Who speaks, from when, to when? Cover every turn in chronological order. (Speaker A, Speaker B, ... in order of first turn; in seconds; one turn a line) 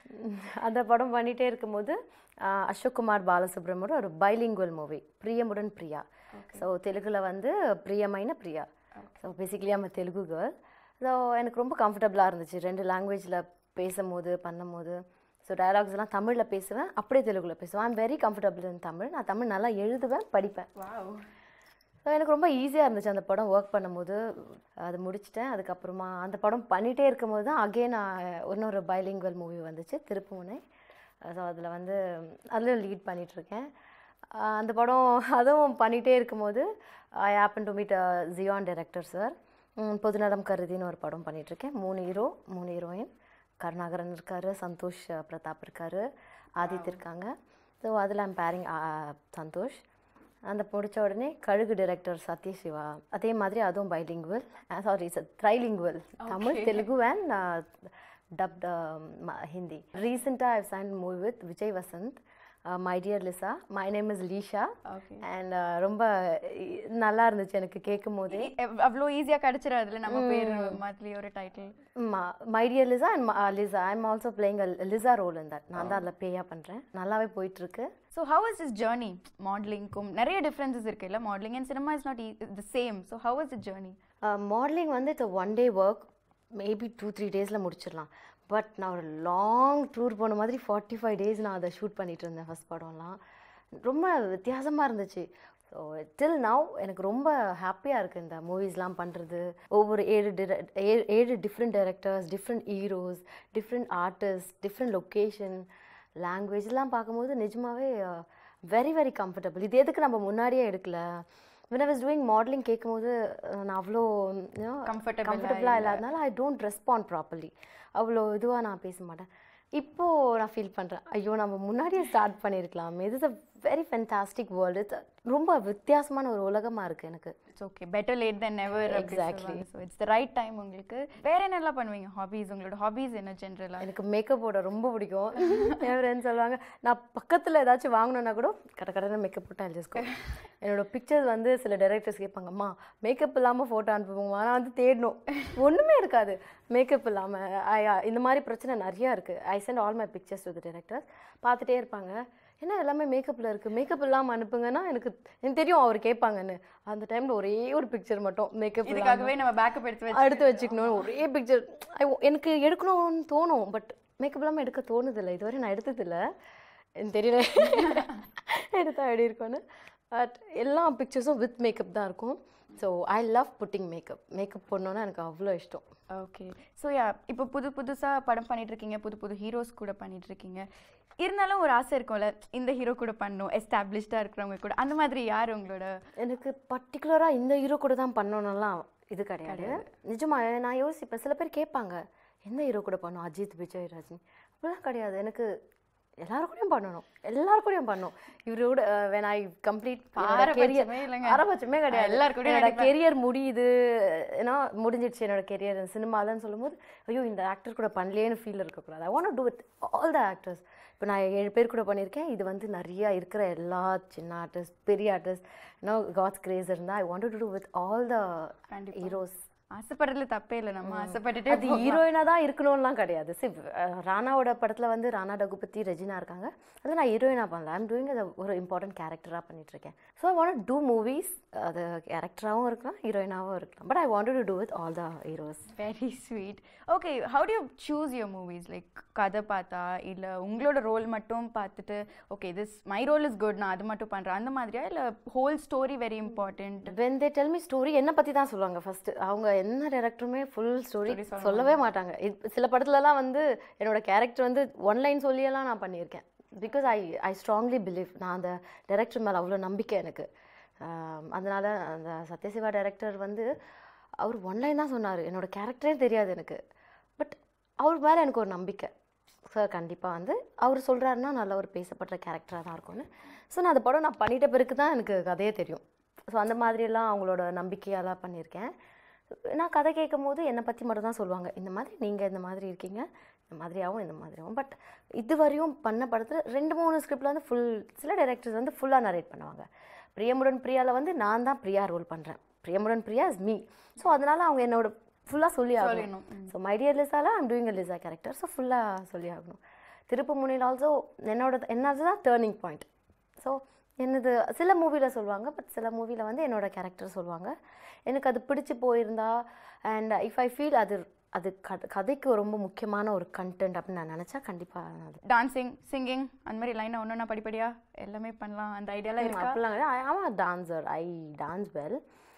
Speaker A: 0.1-8.7
Speaker B: 6.3-6.6
Speaker A: 9.2-20.7
Speaker B: 20.8-21.2
Speaker A: 22.1-30.6
Speaker A: 31.2-33.7
Speaker A: 34.3-46.0
Speaker A: 46.6-49.8
Speaker B: 46.6-47.0
Speaker A: 50.5-68.5
Speaker B: 56.2-56.9
Speaker B: 64.9-65.2
Speaker B: 68.3-71.8
Speaker A: 70.1-70.8
Speaker A: 72.0-77.9
Speaker B: 78.1-84.0
Speaker A: 84.2-93.2
Speaker A: 93.8-105.7
Speaker A: 106.2-127.3
Speaker B: 114.8-116.0
Speaker B: 127.6-133.9
Speaker A: 128.8-129.6
Speaker A: 133.8-140.1
Speaker A: 140.6-159.4
Speaker B: 158.8-161.0
Speaker A: 160.1-166.2
Speaker A: 167.0-175.8
Speaker B: 176.1-180.7
Speaker B: 181.2-185.9
Speaker A: 186.2-195.5
Speaker B: 189.5-189.9
Speaker A: 196.2-219.4
Speaker B: 200.2-202.9
Speaker B: 218.7-219.2
Speaker B: 219.7-222.0
Speaker A: 220.8-235.7
Speaker B: 235.8-246.9
Speaker A: 246.9-260.3
Speaker B: 251.1-251.8
Speaker A: 260.8-263.5
Speaker A: 264.2-266.6
Speaker A: 267.2-268.9
Speaker A: 269.4-278.7
Speaker A: 279.4-307.5
Speaker B: 295.8-296.5
Speaker A: 308.1-315.2
Speaker B: 315.2-319.6
Speaker A: 319.2-322.0